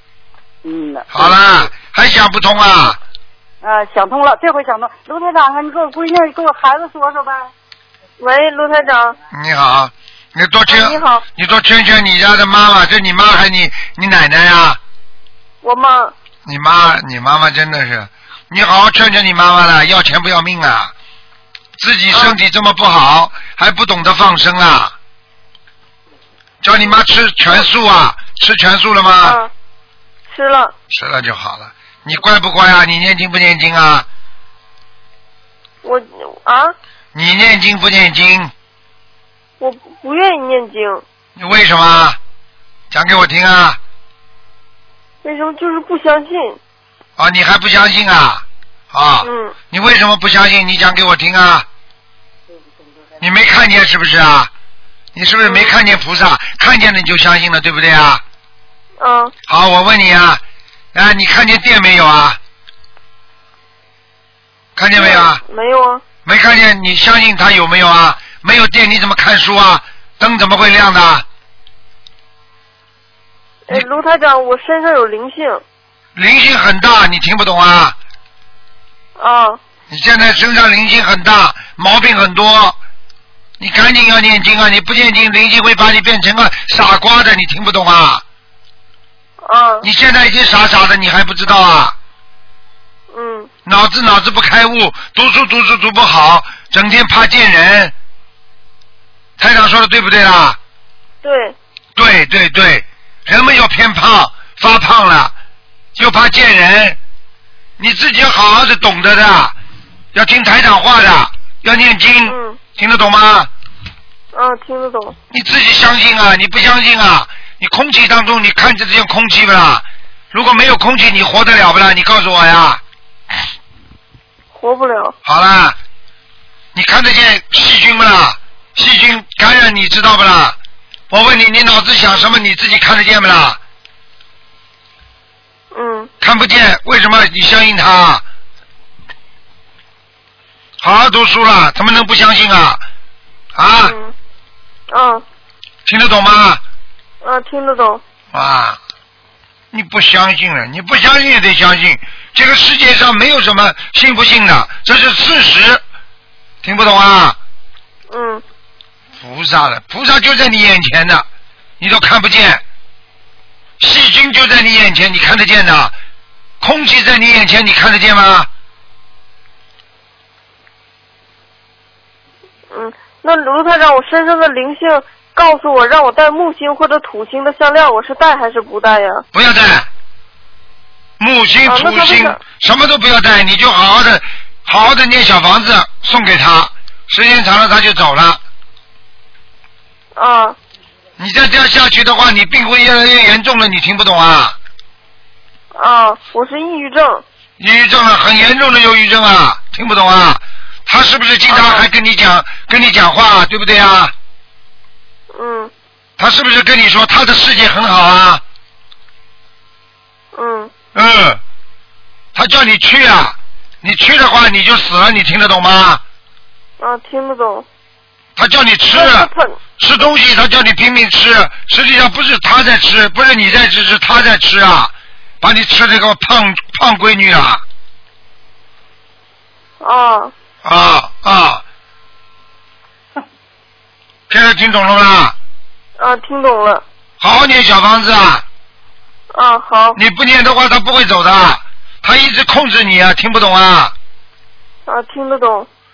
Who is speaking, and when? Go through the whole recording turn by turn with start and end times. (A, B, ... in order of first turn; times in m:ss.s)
0:00.6-0:01.7 A
0:01.1-0:03.0 B
0:03.6-0:07.5 A
0:08.2-0:09.2 C
0:09.3-0:14.8 B
0:10.7-0:11.2 C
0:15.6-0:16.1 C
0:16.5-0:20.9 B
0:21.8-0:24.9 B
0:26.6-0:29.4 B
0:29.2-0:29.5 C
0:30.3-0:30.7 C
0:30.9-0:34.1 B
0:35.8-0:36.8 C
0:37.1-0:38.5 B
0:39.6-0:41.0 C
0:41.4-0:42.2 B
0:42.9-0:43.8 B
0:45.2-0:46.6 C
0:47.2-0:51.7 B
0:49.2-0:49.5 C
0:53.2-0:54.5 B
0:55.1-0:58.2 B
0:59.0-0:59.3 C
0:59.5-1:00.4 B
1:00.9-1:02.4 B
1:04.8-1:05.4 B
1:05.0-1:06.0 C
1:06.2-1:11.3 B
1:13.7-1:15.6 C
1:16.2-1:18.0 B
1:19.2-1:19.6 C
1:19.9-1:22.8 B
1:23.6-1:28.2 B
1:29.4-1:29.9 C
1:29.8-1:32.0 B
1:33.1-1:33.5 C
1:33.7-1:37.9 B
1:39.4-1:40.6 B
1:41.2-1:41.6 C
1:42.0-1:45.3 B
1:46.0-1:47.0 B
1:47.8-1:49.6 B
1:50.1-1:53.5 B
1:52.3-1:52.6 C
1:54.3-1:55.2 C
1:55.3-2:02.8 B
2:04.5-2:05.2 C
2:05.2-2:05.8 B
2:06.7-2:10.6 B
2:11.1-2:13.6 B
2:15.7-2:16.1 C
2:16.2-2:18.2 B
2:20.8-2:22.8 B
2:23.6-2:24.0 B
2:23.8-2:24.1 C
2:24.9-2:25.2 C
2:25.9-2:26.6 B
2:27.2-2:28.0 C
2:28.3-2:28.8 B
2:29.7-2:35.8 B
2:36.6-2:37.4 B
2:38.1-2:38.4 C
2:39.2-2:41.3 B
2:41.8-2:42.6 B
2:43.8-2:45.9 B
2:46.6-2:48.5 B
2:52.7-2:59.2 C
2:59.3-2:59.9 B
3:01.2-3:08.4 B
3:01.7-3:02.4 C
3:10.2-3:10.6 C
3:11.2-3:14.6 B
3:15.8-3:17.2 C
3:17.6-3:24.1 B
3:21.5-3:21.9 C
3:25.3-3:25.7 C
3:26.2-3:28.4 B
3:30.4-3:30.7 C
3:30.9-3:31.4 B
3:32.4-3:36.0 B
3:36.8-3:37.7 C
3:38.4-3:47.6 B
3:38.9-3:39.6 C
3:49.8-3:50.3 C
3:50.6-3:51.6 B
3:54.3-3:55.4 B
3:56.0-3:56.8 C
3:57.2-3:58.4 B
3:59.3-4:00.0 C
4:00.0-4:03.9 B
4:04.9-4:05.7 C